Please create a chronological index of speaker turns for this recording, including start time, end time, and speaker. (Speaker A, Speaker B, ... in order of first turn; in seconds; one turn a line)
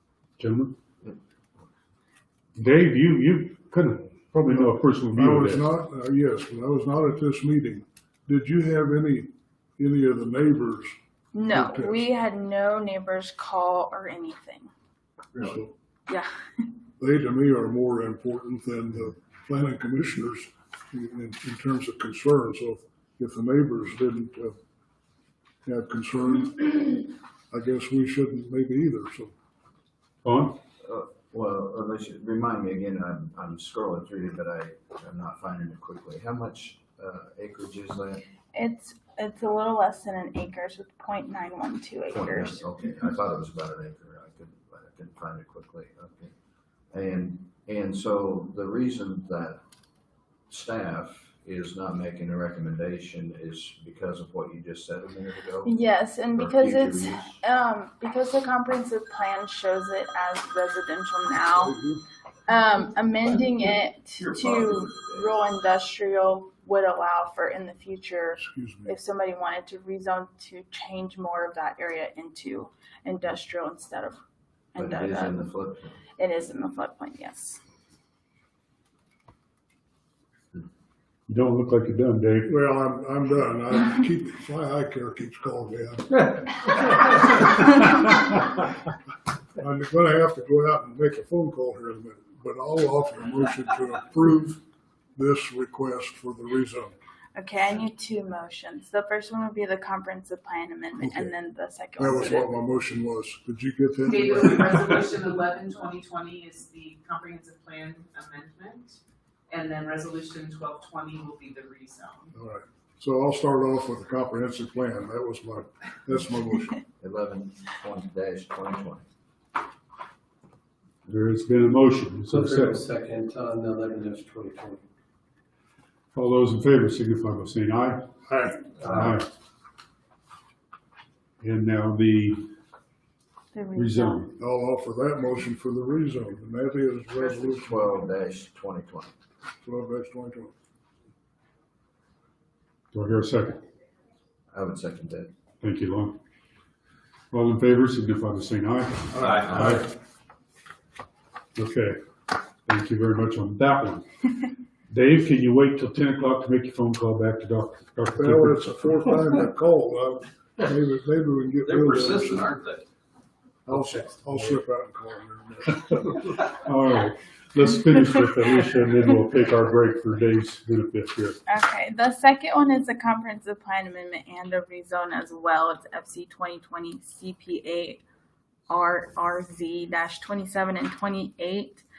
Speaker A: 0.4-0.7
Speaker A: 2.5-5.7
Speaker B: 4.5-10.9
Speaker C: 11.3-14.7
Speaker B: 11.5-12.0
Speaker B: 15.4-15.7
Speaker B: 17.0-24.6
Speaker B: 25.6-29.3
Speaker A: 30.2-30.6
Speaker D: 30.8-38.2
Speaker C: 38.5-42.6
Speaker D: 42.1-46.3
Speaker D: 46.9-49.6
Speaker D: 50.5-55.7
Speaker C: 55.6-61.8
Speaker D: 56.3-57.4
Speaker B: 61.5-62.0
Speaker C: 62.5-74.2
Speaker E: 64.2-64.9
Speaker B: 68.4-69.0
Speaker C: 74.7-75.5
Speaker D: 74.8-76.0
Speaker C: 76.2-77.6
Speaker A: 81.3-82.5
Speaker B: 82.5-87.5
Speaker B: 89.6-94.6
Speaker B: 95.2-96.9
Speaker C: 97.3-102.5
Speaker B: 101.0-101.3
Speaker B: 102.0-105.2
Speaker F: 104.1-109.0
Speaker F: 109.5-112.3
Speaker B: 112.3-116.8
Speaker D: 117.0-119.0
Speaker A: 121.0-122.8
Speaker G: 122.3-124.8
Speaker A: 126.1-128.1
Speaker B: 128.3-128.7
Speaker A: 128.8-129.3
Speaker A: 131.4-132.5
Speaker C: 133.5-134.2
Speaker A: 133.8-134.3
Speaker B: 134.4-137.9
Speaker D: 137.3-139.1
Speaker B: 139.6-140.5
Speaker A: 142.9-143.6
Speaker D: 144.5-145.3
Speaker A: 145.6-146.2
Speaker A: 147.3-149.9
Speaker E: 149.2-149.8
Speaker B: 149.2-149.5
Speaker A: 151.6-152.0
Speaker A: 152.7-154.1
Speaker A: 154.9-158.7
Speaker B: 158.1-162.5
Speaker E: 161.6-162.8
Speaker B: 163.7-166.2
Speaker A: 163.7-164.5
Speaker A: 166.6-171.4
Speaker C: 171.4-178.0
Speaker C: 178.7-181.8